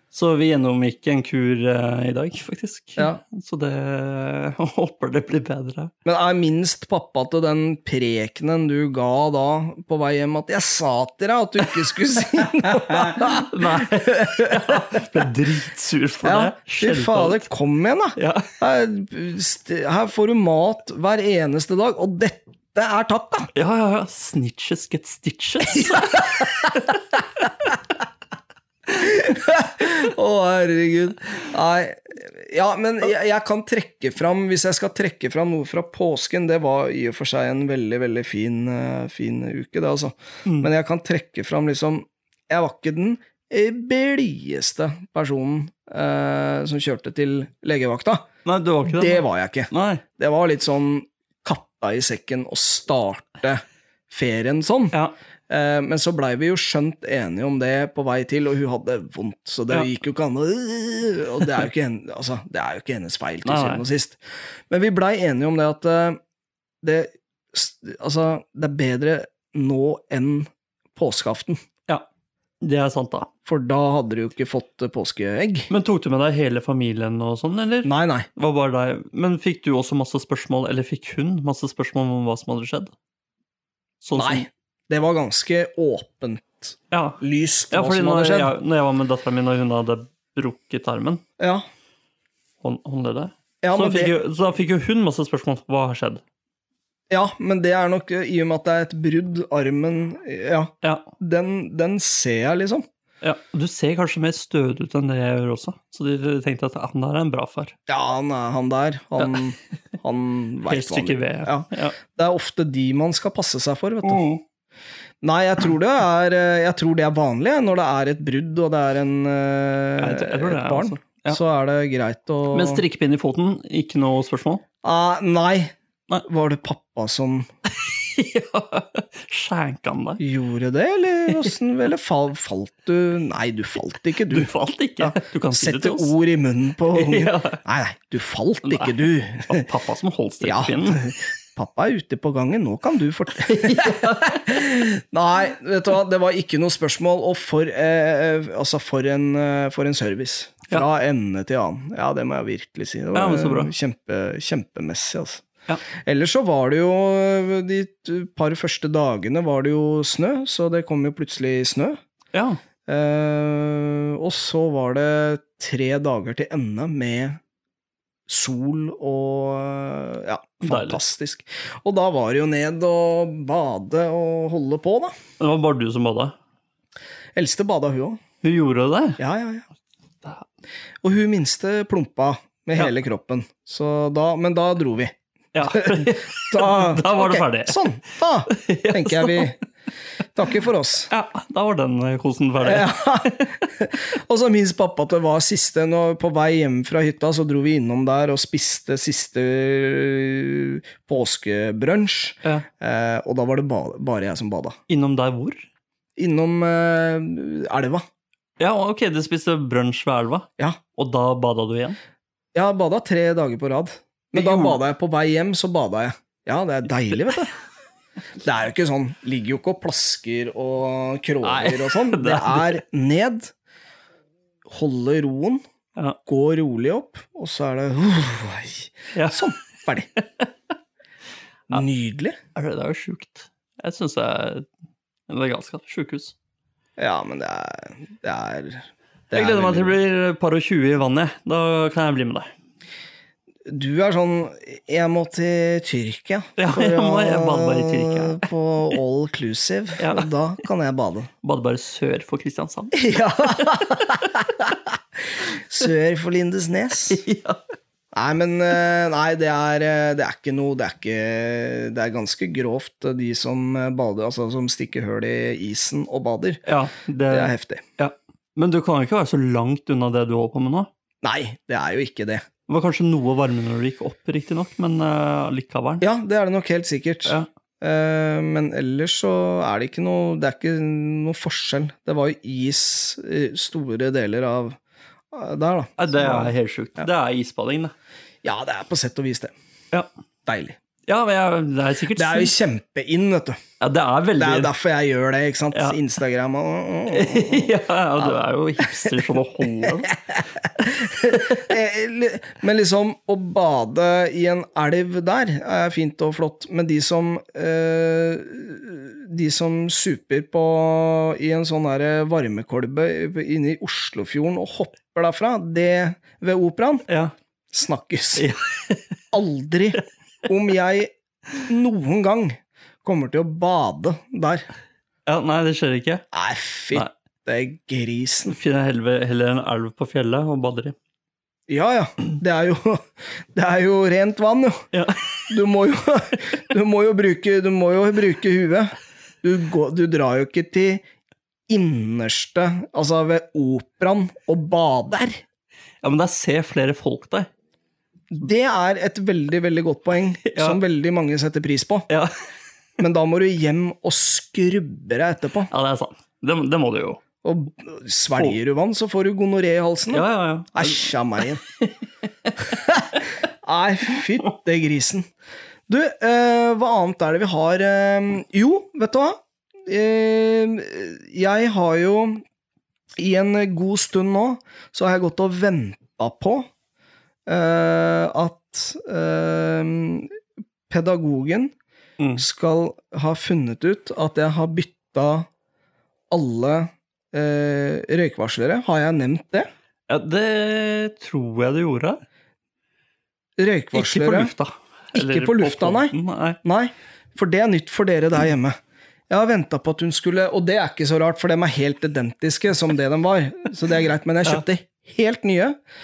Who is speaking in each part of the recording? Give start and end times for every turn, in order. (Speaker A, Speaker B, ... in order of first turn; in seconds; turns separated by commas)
Speaker A: 0.1-5.9, Speaker B: 6.0-15.1, Speaker A: 12.6-17.5, Speaker B: 16.2-23.5, Speaker A: 18.2-18.6, Speaker A: 23.5-27.0, Speaker B: 25.8-26.7, Speaker B: 28.9-48.3, Speaker A: 48.5-50.0, Speaker B: 48.9-55.0, Speaker B: 55.5-66.2, Speaker A: 63.5-63.8, Speaker B: 66.8-71.6, Speaker A: 72.6-73.3, Speaker B: 73.5-75.7, Speaker A: 75.7-82.9, Speaker B: 77.8-78.3, Speaker A: 84.0-84.5, Speaker B: 84.2-88.5, Speaker A: 86.9-91.2, Speaker B: 91.4-91.6, Speaker A: 92.6-96.2, Speaker B: 93.6-94.1, Speaker B: 97.1-102.8, Speaker A: 100.8-101.1, Speaker A: 103.2-107.7, Speaker B: 107.9-114.2, Speaker A: 110.7-112.0, Speaker A: 114.0-114.4, Speaker B: 115.2-122.8, Speaker A: 120.0-121.4, Speaker A: 122.5-124.6, Speaker B: 124.8-125.7, Speaker B: 126.2-127.5, Speaker A: 127.7-130.2, Speaker B: 130.2-139.7, Speaker A: 134.3-136.1, Speaker A: 136.9-137.6, Speaker A: 138.7-141.1, Speaker B: 140.4-155.5, Speaker A: 143.4-144.6, Speaker A: 153.1-153.7, Speaker B: 156.0-162.0, Speaker A: 162.3-162.6, Speaker B: 162.9-167.4, Speaker B: 168.3-175.1, Speaker A: 170.6-171.0, Speaker A: 175.4-176.4, Speaker B: 177.4-178.2, Speaker A: 178.4-179.2, Speaker B: 179.2-179.7, Speaker B: 181.0-189.6, Speaker A: 185.5-187.8, Speaker A: 188.5-189.6, Speaker B: 190.3-191.1, Speaker A: 191.1-193.6, Speaker B: 192.6-204.8, Speaker A: 204.9-205.7, Speaker B: 206.2-208.1, Speaker A: 208.6-212.0, Speaker B: 212.5-217.5, Speaker A: 214.3-214.8, Speaker B: 218.4-223.5, Speaker A: 221.4-222.8, Speaker B: 224.7-225.6, Speaker B: 226.3-230.1, Speaker A: 229.1-229.5, Speaker A: 230.2-230.5, Speaker B: 231.7-232.4, Speaker A: 232.6-234.7, Speaker A: 235.3-236.3, Speaker B: 237.0-240.0, Speaker A: 239.3-242.5, Speaker B: 243.7-251.3, Speaker A: 246.6-248.5, Speaker A: 250.0-250.3, Speaker A: 251.4-254.3, Speaker B: 252.9-257.2, Speaker A: 257.1-257.6, Speaker B: 258.1-266.6, Speaker A: 266.6-270.9, Speaker B: 267.3-267.8, Speaker B: 271.2-272.4, Speaker A: 272.7-276.0, Speaker B: 276.0-284.8, Speaker B: 285.3-287.1, Speaker A: 286.0-287.9, Speaker B: 288.4-289.5, Speaker B: 290.5-290.8, Speaker A: 291.1-292.5, Speaker B: 292.2-293.6, Speaker A: 293.8-294.7, Speaker B: 294.4-317.1, Speaker A: 295.7-296.0, Speaker A: 297.1-300.1, Speaker A: 301.3-301.6, Speaker A: 317.1-317.3, Speaker B: 317.7-318.5, Speaker A: 318.4-319.2, Speaker B: 319.3-324.7, Speaker A: 325.3-326.2, Speaker B: 326.3-328.6, Speaker A: 328.5-330.9, Speaker B: 331.7-334.9, Speaker A: 334.9-335.3, Speaker B: 335.5-341.0, Speaker B: 341.7-345.4, Speaker A: 346.0-347.5, Speaker B: 348.3-352.1, Speaker A: 350.4-350.8, Speaker B: 353.0-355.7, Speaker A: 355.7-357.2, Speaker B: 357.4-361.6, Speaker A: 360.1-361.1, Speaker A: 362.5-362.8, Speaker B: 362.7-365.3, Speaker B: 365.9-372.4, Speaker B: 373.2-376.7, Speaker B: 377.5-380.4, Speaker B: 380.9-381.7, Speaker A: 382.2-382.4, Speaker B: 382.4-385.5, Speaker B: 386.3-389.7, Speaker A: 390.1-392.2, Speaker B: 393.6-394.5, Speaker A: 393.9-396.6, Speaker B: 395.1-398.8, Speaker B: 399.3-405.8